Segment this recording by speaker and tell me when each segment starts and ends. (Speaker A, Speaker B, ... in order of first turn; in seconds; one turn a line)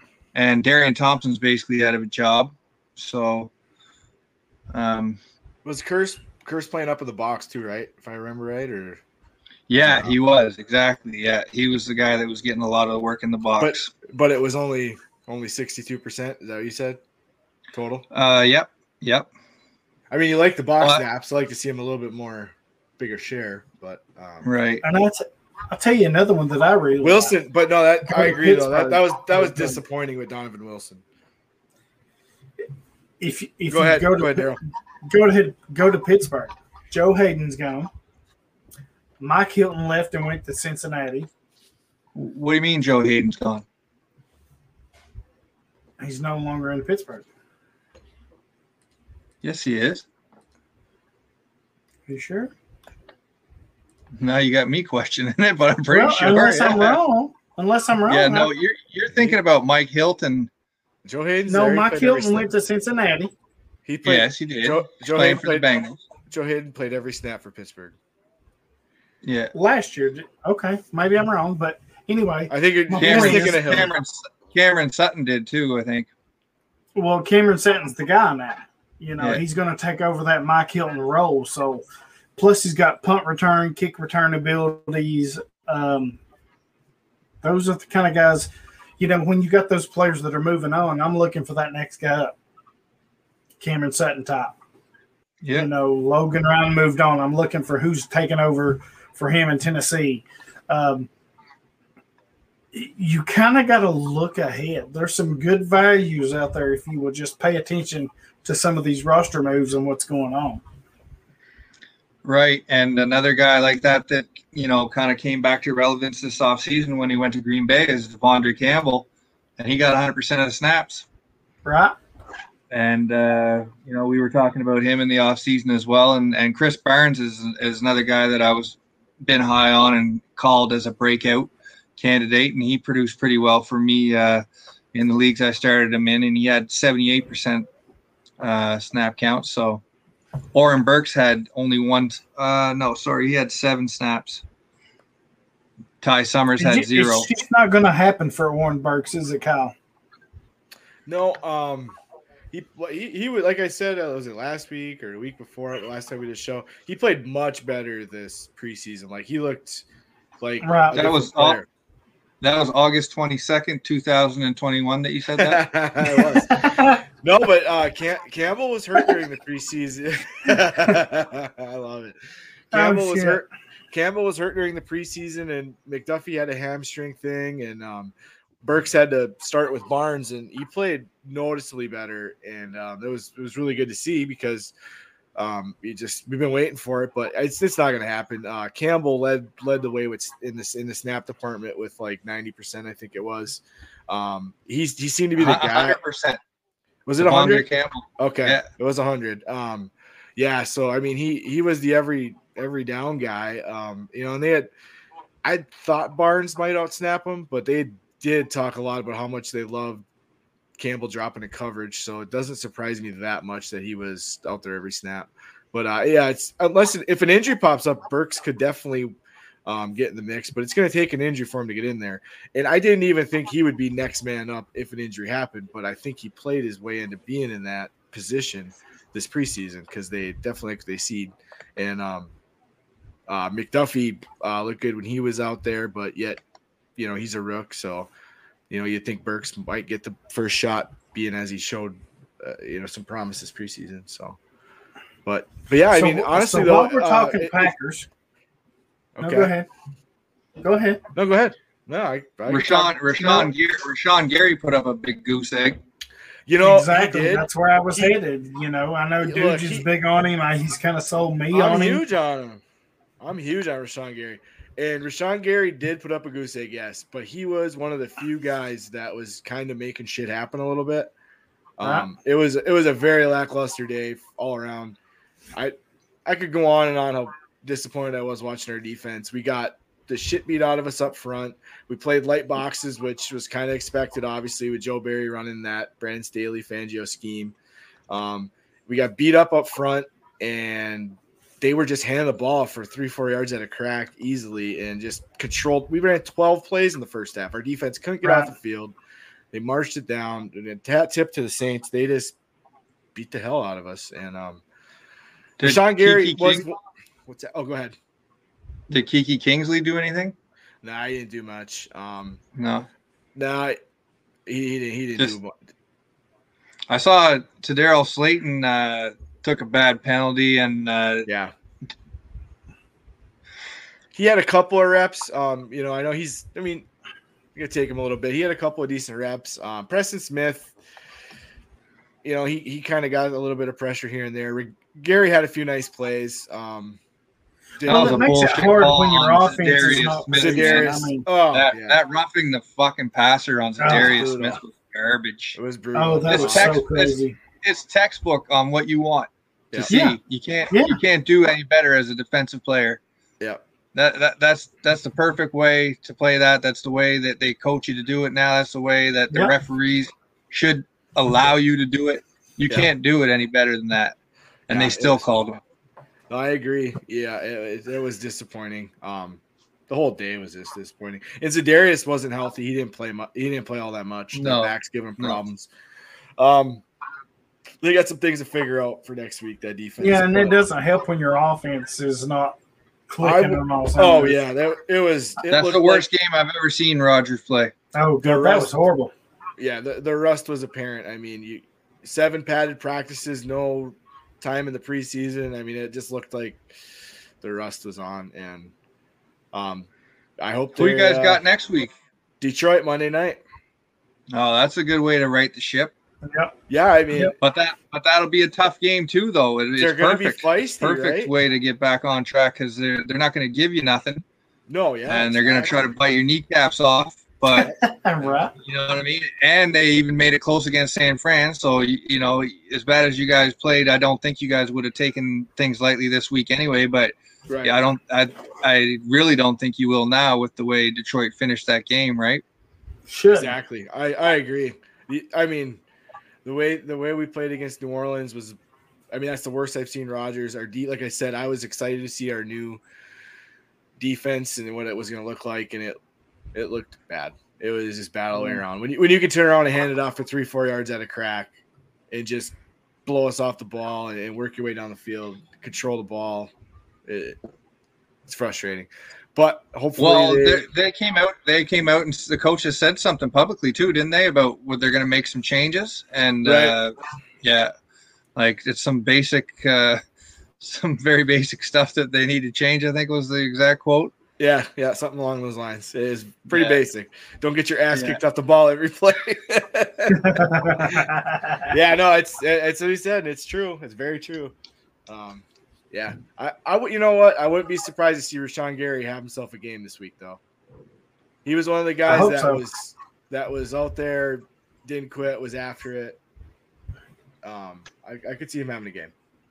Speaker A: 0.3-3.5
Speaker A: 4.7-5.2
Speaker B: 5.7-9.0
Speaker A: 9.7-13.9
Speaker B: 9.8-10.2
Speaker B: 13.6-17.0
Speaker B: 17.7-18.1
Speaker A: 18.1-19.3
Speaker B: 20.1-24.5
Speaker A: 24.4-24.8
Speaker C: 24.8-27.4
Speaker B: 27.0-31.0
Speaker C: 28.1-29.8
Speaker C: 33.2-34.6
Speaker B: 33.7-34.6
Speaker C: 35.1-37.9
Speaker C: 39.2-41.3
Speaker A: 42.1-43.6
Speaker C: 46.0-47.3
Speaker A: 49.4-50.0
Speaker C: 52.1-52.5
Speaker A: 54.2-57.0
Speaker C: 55.9-58.5
Speaker A: 58.1-60.5
Speaker B: 61.0-62.5
Speaker C: 61.5-63.3
Speaker B: 63.9-65.7
Speaker A: 64.0-66.0
Speaker B: 66.3-68.0
Speaker A: 69.2-69.5
Speaker C: 69.5-73.6
Speaker B: 72.5-73.9
Speaker A: 73.0-76.1
Speaker C: 77.0-81.8
Speaker C: 82.4-86.2
Speaker C: 87.4-92.3
Speaker C: 93.6-94.6
Speaker A: 95.4-95.7
Speaker C: 95.5-101.1
Speaker C: 102.7-110.6
Speaker A: 112.2-119.1
Speaker A: 119.6-121.0
Speaker C: 121.7-122.0
Speaker A: 122.7-137.7
Speaker A: 138.4-139.8
Speaker A: 140.5-144.4
Speaker A: 146.0-147.3
Speaker C: 146.6-149.7
Speaker B: 151.1-152.0
Speaker B: 152.5-159.8
Speaker B: 160.4-161.7
Speaker C: 160.6-161.0
Speaker A: 160.9-161.6
Speaker A: 162.4-165.6
Speaker B: 165.4-172.2
Speaker C: 166.1-167.0
Speaker B: 172.7-184.7
Speaker C: 172.7-173.4
Speaker B: 185.4-196.0
Speaker A: 195.4-196.4
Speaker B: 197.1-197.7
Speaker A: 197.2-198.7
Speaker B: 198.2-204.7
Speaker B: 205.4-210.1
Speaker B: 210.8-219.1
Speaker B: 219.7-232.3
Speaker B: 233.3-236.4
Speaker B: 237.0-238.1
Speaker B: 238.7-244.4
Speaker B: 245.2-247.7
Speaker C: 245.9-248.1
Speaker B: 249.2-249.5
Speaker C: 249.2-249.7
Speaker C: 250.6-251.0
Speaker B: 251.2-253.5
Speaker A: 252.5-255.8
Speaker B: 256.5-258.2
Speaker C: 256.6-262.0
Speaker B: 259.2-259.9
Speaker B: 261.5-262.6
Speaker B: 263.2-271.1
Speaker B: 271.8-275.0
Speaker C: 271.8-272.1
Speaker B: 275.6-287.6
Speaker B: 288.1-298.9
Speaker C: 298.2-298.5
Speaker B: 299.5-302.4
Speaker B: 303.1-304.6
Speaker A: 305.6-306.6
Speaker B: 305.6-308.0
Speaker A: 308.9-310.4
Speaker B: 310.8-312.4
Speaker A: 312.6-312.9
Speaker B: 313.4-313.8
Speaker B: 314.5-315.6
Speaker A: 316.9-321.3
Speaker B: 321.3-321.5
Speaker B: 324.1-326.9
Speaker B: 327.6-330.7
Speaker B: 332.2-337.0
Speaker B: 337.8-338.6
Speaker C: 337.8-341.3
Speaker A: 337.9-345.6
Speaker B: 340.3-342.0
Speaker C: 343.8-344.2
Speaker B: 343.9-344.6
Speaker B: 345.6-346.8
Speaker C: 345.9-347.4
Speaker A: 346.3-353.0
Speaker C: 349.9-350.2
Speaker C: 350.7-351.0
Speaker A: 353.9-364.1
Speaker B: 364.7-365.4
Speaker A: 364.7-365.6
Speaker B: 366.3-375.7
Speaker A: 374.3-375.4
Speaker B: 376.4-376.8
Speaker B: 377.8-380.6
Speaker C: 380.0-382.6
Speaker C: 383.1-384.4
Speaker B: 383.2-386.1
Speaker A: 385.5-387.7
Speaker C: 387.9-389.1
Speaker B: 388.2-388.7
Speaker B: 389.6-396.7
Speaker B: 397.4-398.7
Speaker B: 399.5-401.4
Speaker A: 400.8-401.9
Speaker B: 402.4-403.4
Speaker A: 404.3-405.9
Speaker C: 406.2-406.5
Speaker B: 406.7-407.4
Speaker A: 407.4-414.2
Speaker B: 409.8-411.3
Speaker B: 414.7-415.9
Speaker A: 415.1-417.7
Speaker C: 417.6-418.5
Speaker A: 418.6-432.4
Speaker B: 427.5-427.8
Speaker C: 433.1-433.6
Speaker B: 433.3-435.8
Speaker B: 436.4-438.6
Speaker B: 439.1-442.8
Speaker B: 444.0-446.0
Speaker B: 446.5-451.5
Speaker B: 452.1-452.6
Speaker B: 453.1-456.5
Speaker B: 457.1-457.4
Speaker B: 458.3-460.6
Speaker A: 460.0-467.7
Speaker B: 466.4-466.8
Speaker A: 468.4-470.0
Speaker A: 470.6-474.1
Speaker B: 474.4-481.0
Speaker A: 476.5-476.8
Speaker A: 477.9-478.2
Speaker C: 480.1-481.7
Speaker B: 481.7-484.6
Speaker B: 485.1-490.4
Speaker B: 491.4-496.2
Speaker C: 492.1-492.6
Speaker B: 497.4-499.1